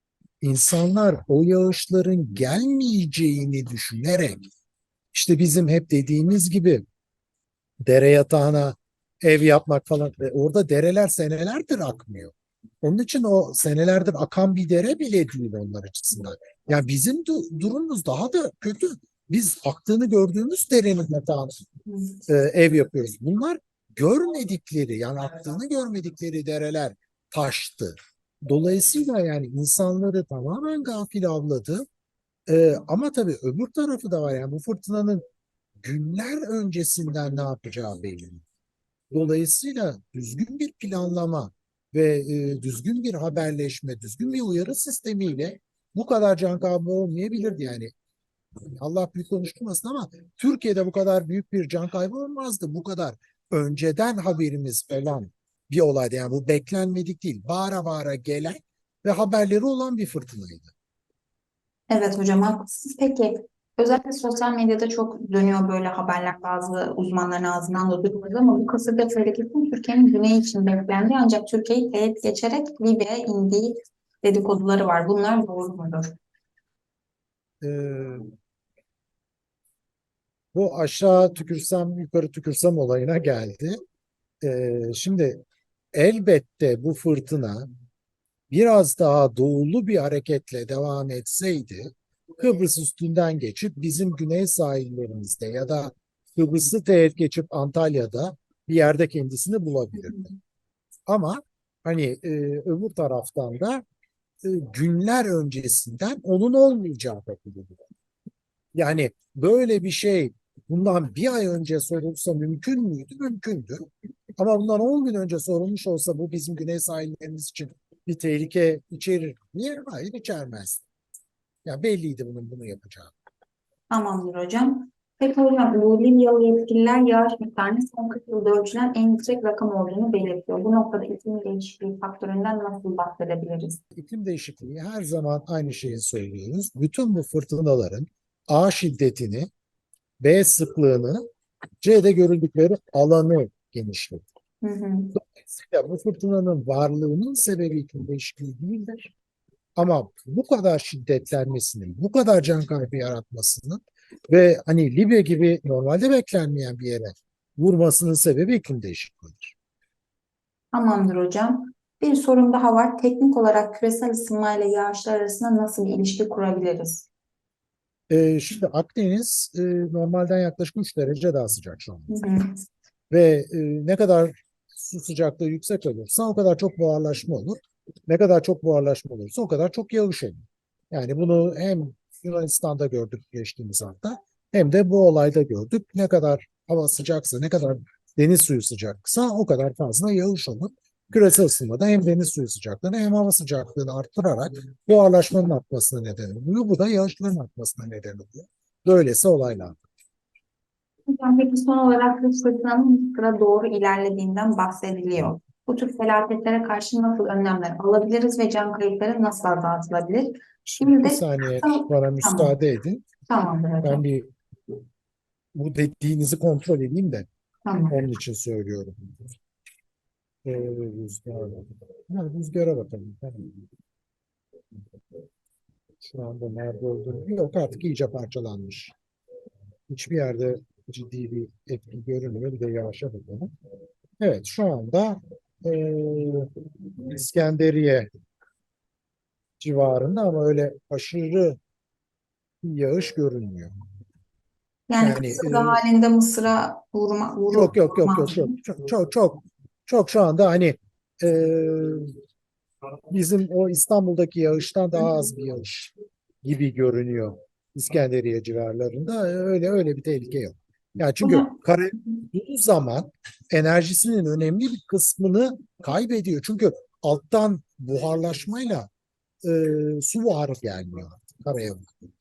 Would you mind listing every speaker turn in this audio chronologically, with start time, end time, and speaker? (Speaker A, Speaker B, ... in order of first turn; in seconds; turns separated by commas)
Speaker A: 0.4-4.5, Speaker A: 5.1-6.8, Speaker A: 7.8-21.6, Speaker B: 21.9-22.1, Speaker A: 22.3-31.9, Speaker A: 32.5-35.2, Speaker A: 35.8-38.4, Speaker A: 39.1-47.9, Speaker A: 48.8-60.7, Speaker B: 61.9-76.2, Speaker A: 77.6-78.3, Speaker A: 80.5-83.8, Speaker A: 84.4-85.4, Speaker A: 85.9-87.7, Speaker A: 88.5-100.3, Speaker A: 101.1-103.8, Speaker A: 104.4-107.9, Speaker A: 108.8-113.9, Speaker A: 114.4-120.9, Speaker A: 121.7-123.1, Speaker B: 123.9-133.8, Speaker A: 133.9-139.5, Speaker A: 140.2-141.2, Speaker A: 141.8-144.3, Speaker B: 144.6-145.2, Speaker A: 145.2-149.1, Speaker A: 149.8-159.6, Speaker B: 160.7-167.1, Speaker A: 168.1-172.2, Speaker B: 172.1-172.6, Speaker A: 173.1-199.8, Speaker B: 201.1-212.5, Speaker A: 210.8-213.1, Speaker B: 213.3-214.0, Speaker A: 213.8-214.3, Speaker A: 215.6-217.3, Speaker B: 217.7-217.9, Speaker A: 217.9-219.0, Speaker A: 220.4-223.6, Speaker A: 226.0-228.9, Speaker A: 229.9-233.5, Speaker A: 234.2-238.1, Speaker A: 239.6-241.6, Speaker A: 242.6-243.7, Speaker B: 244.9-248.5, Speaker A: 245.0-245.8, Speaker A: 247.5-252.2, Speaker A: 253.1-268.9, Speaker A: 269.4-271.9